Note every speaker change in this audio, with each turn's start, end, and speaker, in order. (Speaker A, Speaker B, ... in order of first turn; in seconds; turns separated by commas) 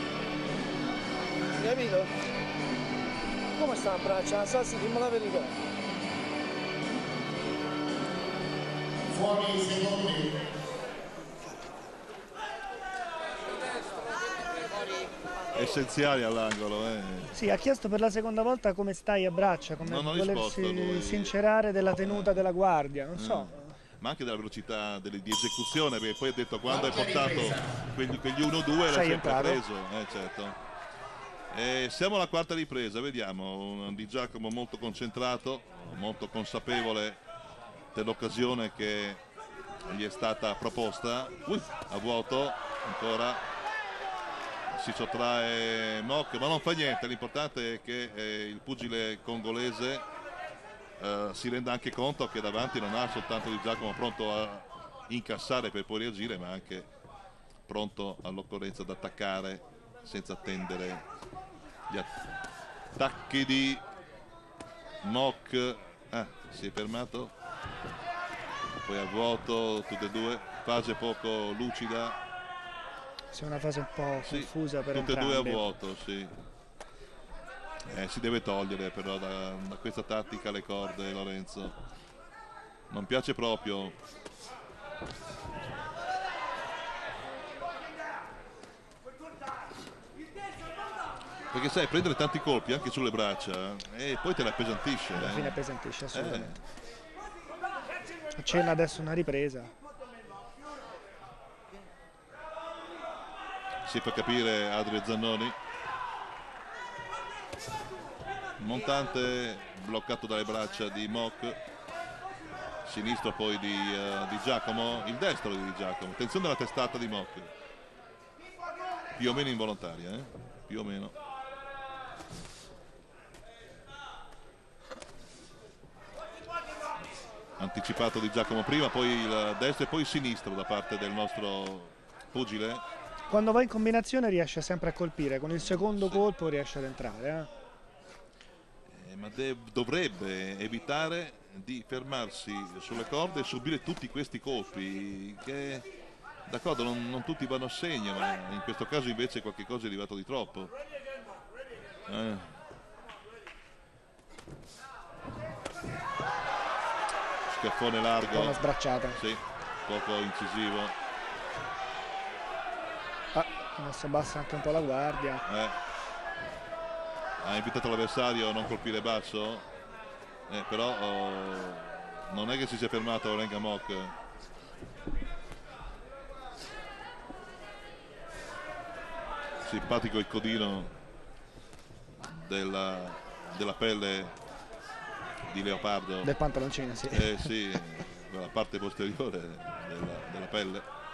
Speaker A: 1.6-2.1, Speaker A: 3.6-5.5, Speaker A: 9.3-10.2, Speaker B: 15.5-17.4, Speaker C: 17.3-23.8, Speaker B: 19.8-21.3, Speaker B: 22.0-22.5, Speaker B: 23.1-30.6, Speaker C: 28.9-29.6, Speaker B: 31.5-37.2, Speaker B: 37.9-39.2, Speaker B: 39.9-43.4, Speaker B: 44.7-50.1, Speaker B: 51.0-56.9, Speaker B: 57.7-61.0, Speaker B: 63.0-63.8, Speaker B: 65.0-67.3, Speaker B: 68.8-72.2, Speaker C: 73.3-75.7, Speaker B: 74.2-76.3, Speaker B: 77.9-81.8, Speaker B: 82.9-84.0, Speaker B: 91.5-95.6, Speaker C: 95.1-96.5, Speaker B: 96.1-96.6, Speaker C: 98.4-99.7, Speaker B: 103.8-105.6, Speaker B: 108.6-111.6, Speaker B: 112.9-117.5, Speaker B: 119.2-121.1, Speaker B: 127.6-132.8, Speaker C: 133.3-137.5, Speaker B: 135.5-136.2, Speaker B: 138.9-145.8, Speaker B: 146.5-150.7, Speaker B: 152.1-152.6, Speaker B: 157.5-160.9, Speaker C: 158.3-159.2, Speaker C: 163.3-165.4, Speaker B: 165.5-165.8, Speaker B: 167.4-169.7, Speaker B: 170.5-174.1, Speaker B: 179.7-180.9, Speaker B: 182.3-184.4, Speaker B: 185.5-186.3, Speaker C: 186.2-187.6, Speaker B: 187.1-190.9